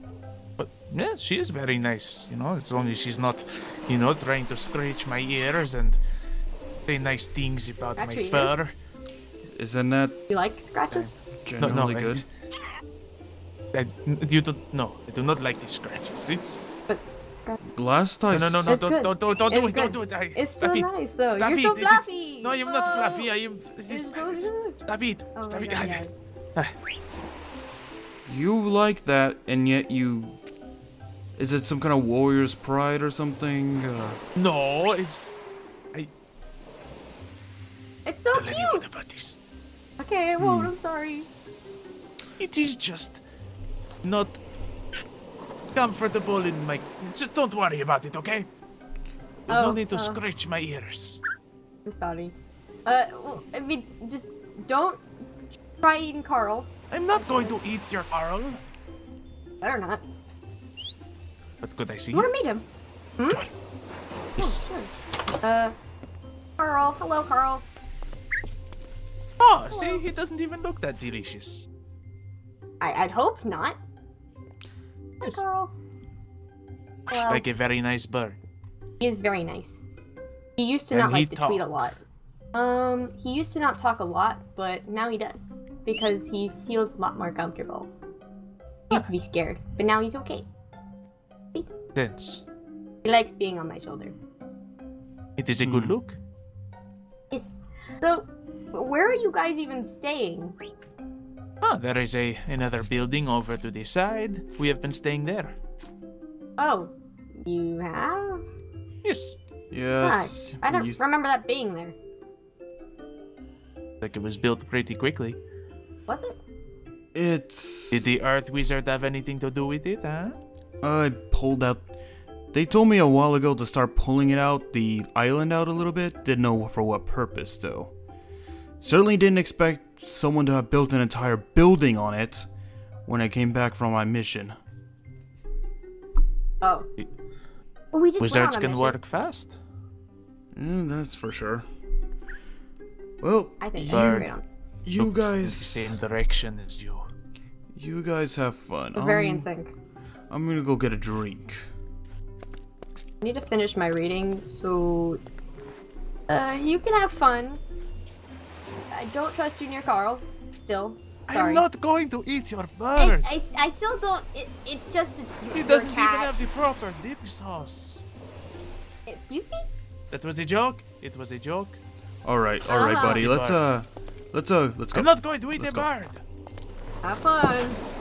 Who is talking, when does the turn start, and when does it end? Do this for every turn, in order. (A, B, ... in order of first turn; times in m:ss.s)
0:00.6-0:06.0 A
0:06.9-0:08.7 A
0:08.0-0:08.6 B
0:09.5-0:10.2 C
0:10.3-0:11.1 B
0:10.9-0:12.2 C
0:11.6-0:12.3 A
0:13.7-0:16.6 A
0:16.9-0:17.6 B
0:17.7-0:18.8 C
0:18.3-0:26.7 A
0:18.7-0:23.3 B
0:23.9-0:24.8 B
0:25.3-0:26.1 B
0:28.3-0:30.4 C
0:31.4-0:34.2 C
0:34.4-0:35.3 A
0:38.0-0:38.8 B
0:38.3-0:39.4 A
0:40.0-0:41.3 B
0:40.4-0:40.7 C
0:42.4-0:43.2 A
0:44.0-0:44.4 A
0:45.7-0:48.5 A
0:49.5-0:51.2 A
0:49.5-0:50.2 B
0:51.8-0:52.3 B
0:52.8-0:55.0 B
0:55.8-0:57.6 B
0:56.9-0:58.6 A
0:59.6-1:00.0 B
1:01.6-1:02.3 A
1:02.1-1:02.7 B
1:04.4-1:04.6 A
1:04.4-1:05.7 B
1:06.6-1:07.7 B
1:09.4-1:11.7 A
1:09.7-1:10.0 B
1:12.8-1:13.8 B
1:15.2-1:15.7 B
1:17.1-1:17.4 B
1:17.3-1:18.4 A
1:19.0-1:19.8 B
1:20.6-1:22.0 B
1:20.9-1:21.9 A
1:22.5-1:27.9 B
1:28.9-1:30.5 B
1:32.0-1:32.4 A
1:33.0-1:34.2 B
1:35.4-1:36.2 A
1:35.6-1:36.0 C
1:37.3-1:40.6 B
1:41.6-1:45.6 A
1:46.6-1:48.4 B
1:49.0-1:49.4 A
1:49.7-1:51.0 C
1:50.0-1:52.0 B
1:54.0-1:55.4 A
1:56.1-1:56.4 B
1:57.1-1:58.0 C
1:57.9-2:00.4 A
2:00.8-2:01.9 C
2:02.5-2:07.9 C
2:08.8-2:12.5 C
2:13.1-2:14.6 C
2:16.6-2:16.9 B
2:17.9-2:19.0 B
2:18.2-2:19.6 A
2:20.6-2:21.7 C
2:23.2-2:24.3 C
2:23.6-2:24.4 B
2:23.9-2:24.3 A
2:24.8-2:25.8 C
2:25.0-2:27.0 A
2:27.7-2:29.5 C
2:29.0-2:29.7 B
2:30.3-2:31.6 C
2:33.2-2:35.2 B
2:36.3-2:37.6 B
2:38.9-2:41.6 B
2:41.3-2:43.3 A
2:43.0-2:46.3 B
2:45.5-2:48.0 A
2:49.1-2:49.7 B
2:50.1-2:51.8 A
2:52.2-2:55.9 C
2:52.6-2:53.2 B
2:53.0-2:53.6 A
2:54.9-2:56.2 A
2:57.0-2:57.8 B